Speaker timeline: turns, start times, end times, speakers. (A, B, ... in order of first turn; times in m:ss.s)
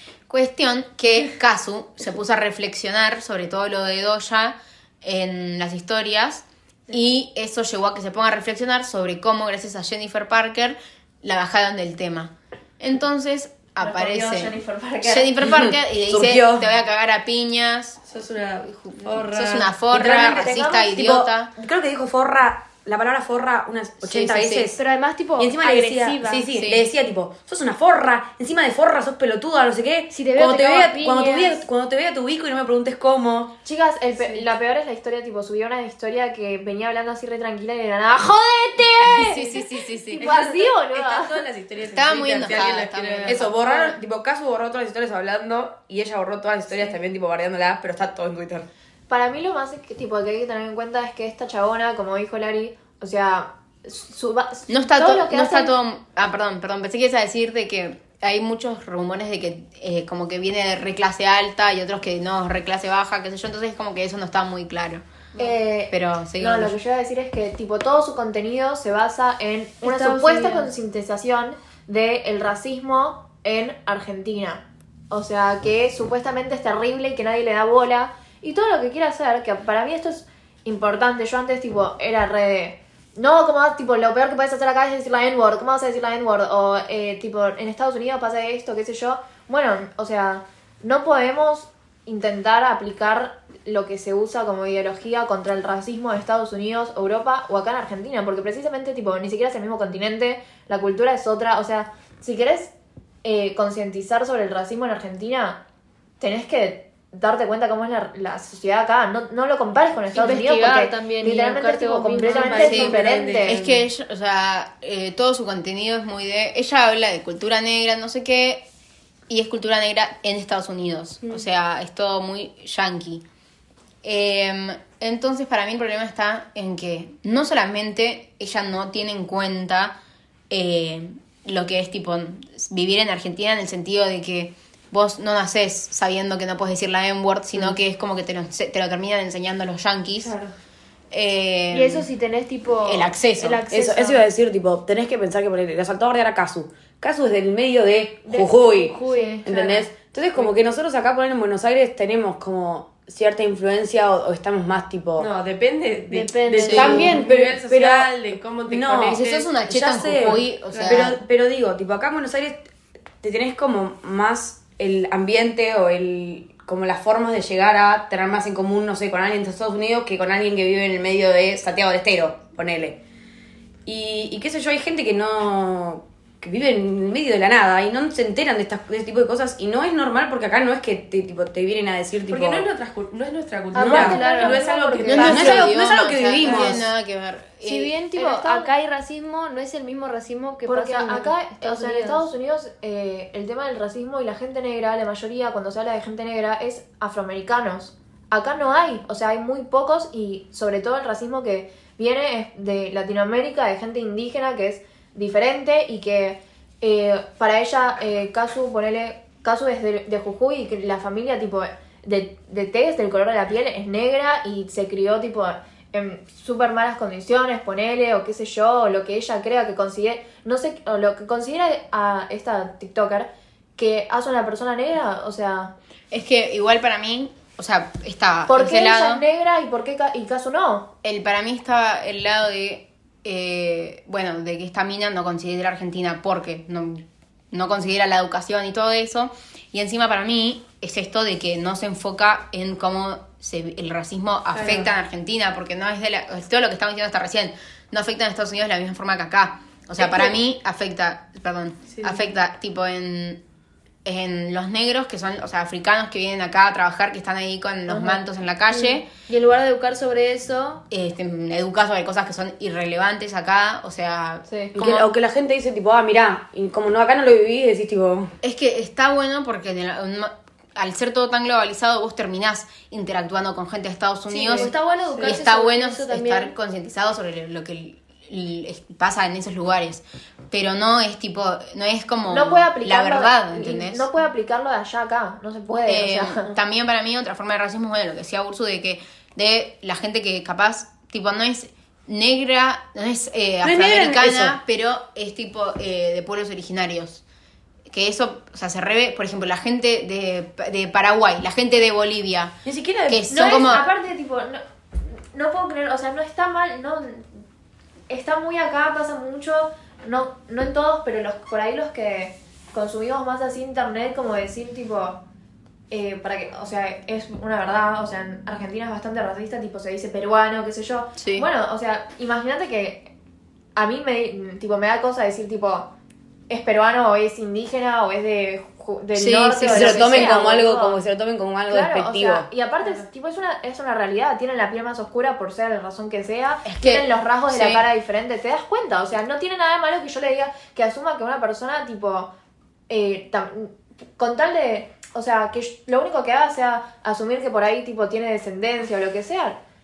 0:00.3-0:18.0 A
0:13.8-0:15.4 B
0:15.4-0:16.7 C
0:18.1-0:19.8 D
0:18.6-0:21.5 A
0:19.9-0:24.8 C
0:20.0-0:21.0 B
0:24.0-0:24.7 A
0:24.8-0:26.5 E
0:25.4-0:33.5 C
0:26.5-0:26.9 A
0:30.1-0:31.6 E
0:33.6-0:39.5 B
0:34.2-0:34.4 D
0:39.1-0:40.3 A
0:40.2-0:41.4 B
0:40.2-0:43.6 D
0:41.9-0:43.6 A
0:43.3-0:48.7 C
0:49.1-0:55.7 B
0:54.7-1:05.0 A
1:05.4-1:42.7 B
1:05.9-1:06.8 A
1:09.8-1:10.7 E
1:43.2-1:45.6 B
1:46.2-1:53.6 B
1:50.1-1:52.9 E
1:52.2-1:53.9 D
1:52.6-1:52.9 A
1:53.4-1:58.6 A
1:59.3-2:03.2 A
2:04.0-2:09.9 A
2:10.5-2:20.4 A
2:20.2-2:20.5 B
2:21.1-2:22.1 A
2:21.7-2:24.2 E
2:22.8-2:23.6 A
2:23.7-2:35.3 C
2:28.3-2:29.5 E
2:28.9-2:29.5 B
2:35.2-2:41.1 D
2:36.1-2:37.2 E
2:36.6-2:37.1 A
2:36.7-2:38.1 C
2:38.7-2:42.6 C
2:39.1-2:41.2 A
2:43.2-2:53.0 C
2:53.9-3:02.7 C
3:02.3-3:05.7 D
3:03.7-3:05.7 B
3:03.8-3:04.2 C
3:03.9-3:04.7 E
3:05.1-3:07.9 A
3:05.2-3:06.9 C
3:06.4-3:06.7 D
3:07.6-3:12.3 E
3:08.1-3:08.7 B
3:10.6-3:45.7 B
3:46.1-3:49.2 A
3:48.5-3:50.9 B
3:51.0-4:13.4 A
4:04.5-4:04.9 D
4:11.9-4:12.3 D
4:14.0-4:19.1 A
4:18.7-4:20.8 E
4:20.9-4:25.1 A
4:24.5-4:24.7 B
4:24.8-4:28.3 C
4:28.4-4:44.1 A
4:34.3-4:36.5 E
4:42.3-4:46.6 B
4:45.9-4:57.2 A
4:53.6-4:54.6 C
4:57.9-5:02.6 A
5:02.6-5:03.3 C
5:03.1-5:03.8 A
5:03.3-5:07.4 B
5:08.1-5:15.2 B
5:15.9-5:23.1 B
5:21.2-5:21.4 A
5:23.8-5:25.9 B
5:26.5-5:31.0 B
5:29.1-5:30.4 A
5:29.6-5:32.5 C
5:31.7-5:42.3 B
5:36.6-5:37.8 A
5:42.9-5:49.6 B